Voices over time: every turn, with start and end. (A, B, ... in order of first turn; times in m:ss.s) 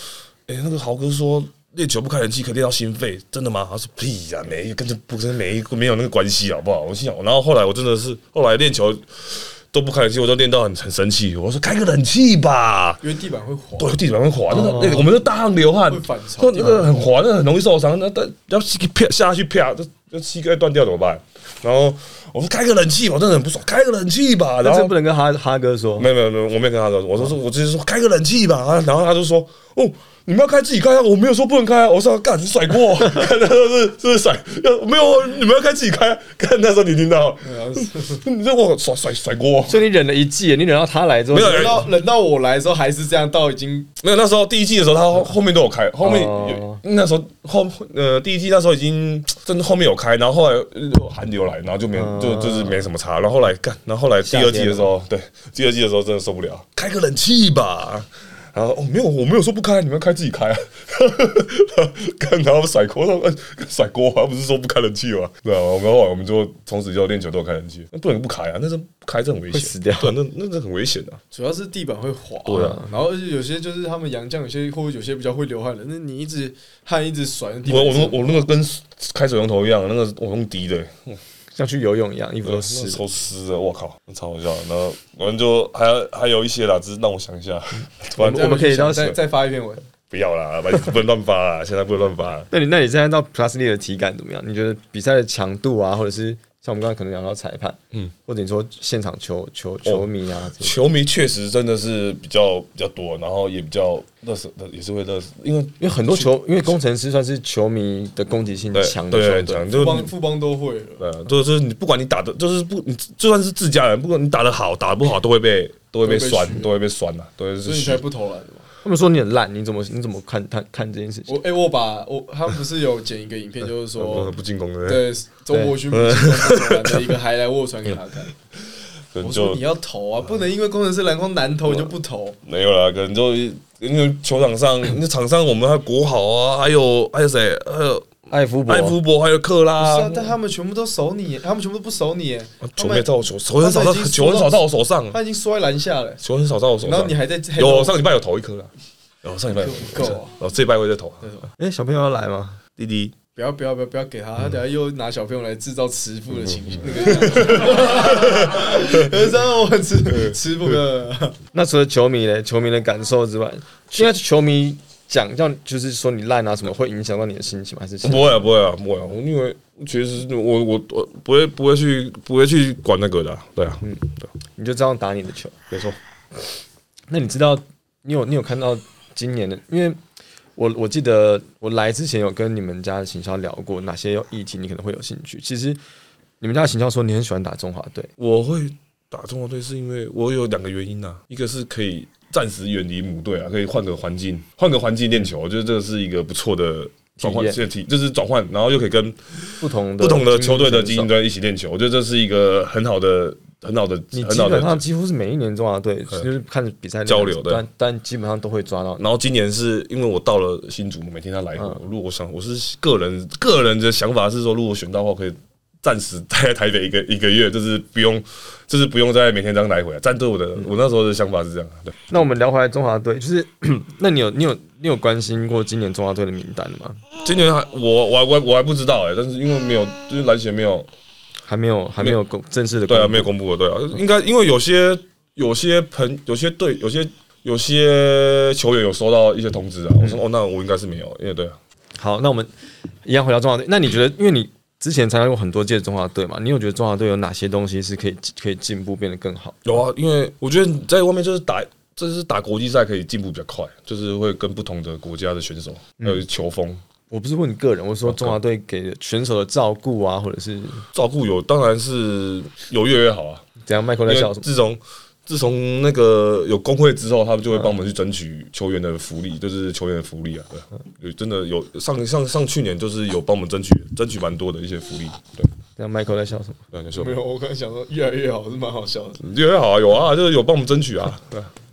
0:00.5-0:13.0 A
0:13.0-0:14.0 B
0:13.8-0:24.9 A
0:14.5-0:15.1 C
0:15.9-0:16.9 B
0:24.6-0:26.1 C
0:26.0-0:39.8 A
0:37.4-0:38.2 B
0:39.7-0:41.9 C
0:41.3-0:41.9 A
0:41.4-0:43.9 B
0:44.0-1:11.2 A
0:46.0-0:46.8 C
0:51.9-0:52.9 C
0:54.2-0:54.9 C
1:09.5-1:10.2 C
1:11.3-1:18.5 B
1:12.5-1:12.8 A
1:12.5-1:12.8 C
1:17.7-1:21.2 A
1:21.5-1:23.0 C
1:22.4-1:29.0 A
1:28.2-1:29.8 B
1:28.2-1:29.1 C
1:30.1-1:32.5 A
1:32.5-1:40.8 C
1:39.8-1:46.3 A
1:45.8-1:49.7 C
1:48.7-1:50.1 A
1:49.7-1:51.0 B
1:51.0-1:58.0 A
1:56.0-1:56.8 B
1:57.6-1:58.7 B
1:58.8-2:01.3 C
2:01.3-2:04.3 B
2:04.0-2:05.1 A
2:04.8-2:08.3 B
2:05.9-2:07.0 A
2:09.1-2:09.6 A
2:09.2-2:12.4 B
2:12.4-2:20.4 A
2:18.3-2:19.0 C
2:19.8-2:26.2 B
2:22.6-2:25.2 A
2:26.2-2:28.7 A
2:26.8-2:27.9 B
2:29.2-2:31.2 A
2:29.6-2:30.3 B
2:31.2-2:31.5 B
2:31.6-2:32.6 C
2:32.8-2:33.2 A
2:33.4-2:41.4 B
2:36.4-2:39.3 A
2:40.0-2:40.7 A
2:41.5-2:48.4 C
2:48.0-2:54.3 A
2:53.8-2:55.6 C
2:55.7-2:56.0 A
2:57.1-3:00.0 C
3:00.6-3:05.8 C
3:06.4-3:08.1 C
3:08.2-3:24.8 A
3:17.2-3:17.6 C
3:19.6-3:21.1 C
3:24.1-3:29.0 C
3:27.1-3:27.6 A
3:29.0-3:42.0 A
3:42.1-3:47.0 C
3:47.2-3:50.9 A
3:51.4-3:53.3 C
3:52.9-4:01.6 A
4:02.0-4:02.5 C
4:03.0-4:09.7 C
4:09.6-4:16.8 A
4:17.1-4:20.9 C
4:18.0-4:18.4 A
4:20.9-4:23.4 A
4:23.7-4:24.4 C
4:24.1-4:35.5 A
4:35.8-4:36.6 C
4:36.7-4:37.1 A
4:36.9-4:39.2 B
4:39.2-4:41.5 A